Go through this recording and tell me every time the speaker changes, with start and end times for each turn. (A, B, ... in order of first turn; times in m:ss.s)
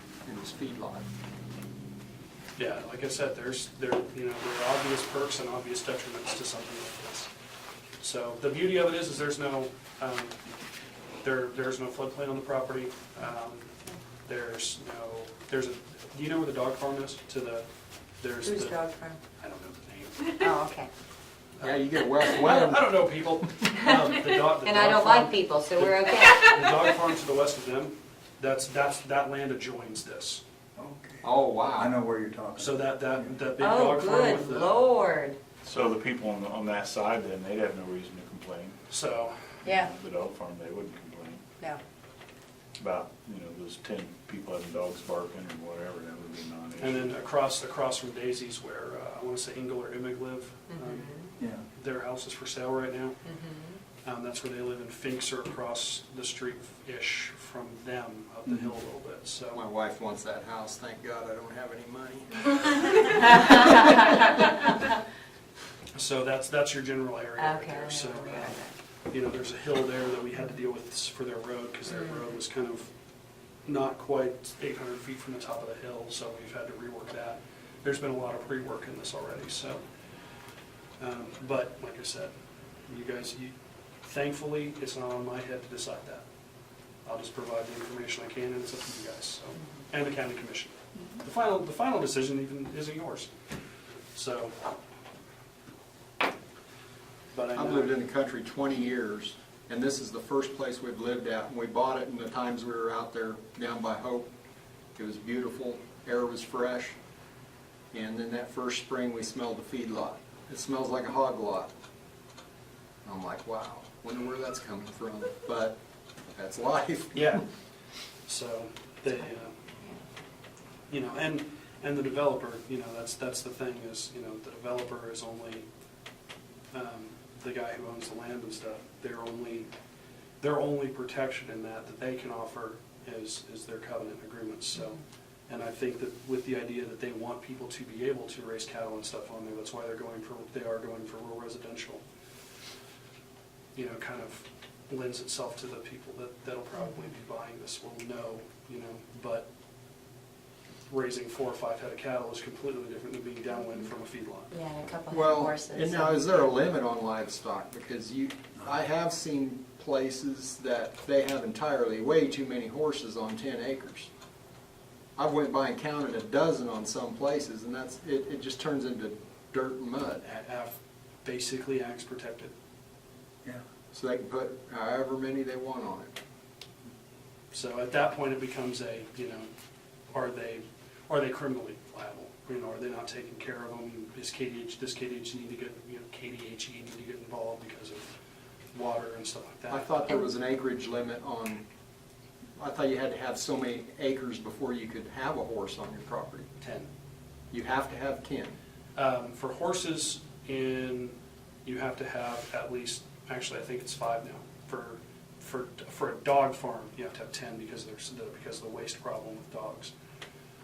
0:00.2-0:01.1 A
0:02.6-0:07.3 B
0:08.0-0:10.4 B
0:11.2-0:13.7 B
0:14.2-0:17.7 B
0:18.2-0:18.8 B
0:18.4-0:19.2 C
0:19.4-0:20.6 B
0:20.4-0:20.9 C
0:21.6-0:22.9 A
0:21.6-0:30.4 B
0:24.5-0:26.5 C
0:30.8-0:33.4 D
0:31.2-0:31.9 A
0:32.6-0:34.8 B
0:33.6-0:35.4 C
0:35.6-0:38.8 E
0:38.9-0:39.3 B
0:39.6-0:39.9 C
0:39.6-0:41.4 E
0:42.8-0:47.2 E
0:46.8-0:51.1 B
0:50.7-0:51.3 C
0:51.7-0:53.2 B
0:53.2-0:53.8 C
0:54.0-0:59.6 B
0:59.5-1:04.0 A
1:03.2-1:04.6 C
1:05.9-1:08.6 B
1:07.4-1:08.8 C
1:09.1-1:12.9 B
1:11.9-1:12.2 C
1:13.7-1:19.8 B
1:21.0-1:22.3 B
1:22.9-1:26.3 B
1:27.0-1:33.3 B
1:34.1-1:34.6 B
1:37.3-1:38.0 B
1:37.6-1:44.3 A
1:45.0-1:47.0 A
1:47.9-1:51.7 A
1:53.0-1:55.8 A
1:56.4-1:57.4 A
1:57.2-1:57.4 B
1:58.3-1:59.5 B
2:00.9-2:05.7 B
2:06.7-2:09.7 B
2:10.4-2:22.0 B
2:23.8-2:29.5 B
2:26.8-2:27.1 C
2:30.9-2:34.5 B
2:34.5-2:36.5 C
2:35.1-2:44.1 A
2:45.2-2:50.2 A
2:50.2-2:52.5 B
2:53.9-2:56.1 A
2:57.5-2:59.5 B
3:00.1-3:08.1 B
3:08.7-3:10.1 B
3:09.7-3:11.6 A
3:12.6-3:16.5 A
3:16.6-3:16.9 B
3:17.5-3:18.6 A
3:19.0-3:29.9 B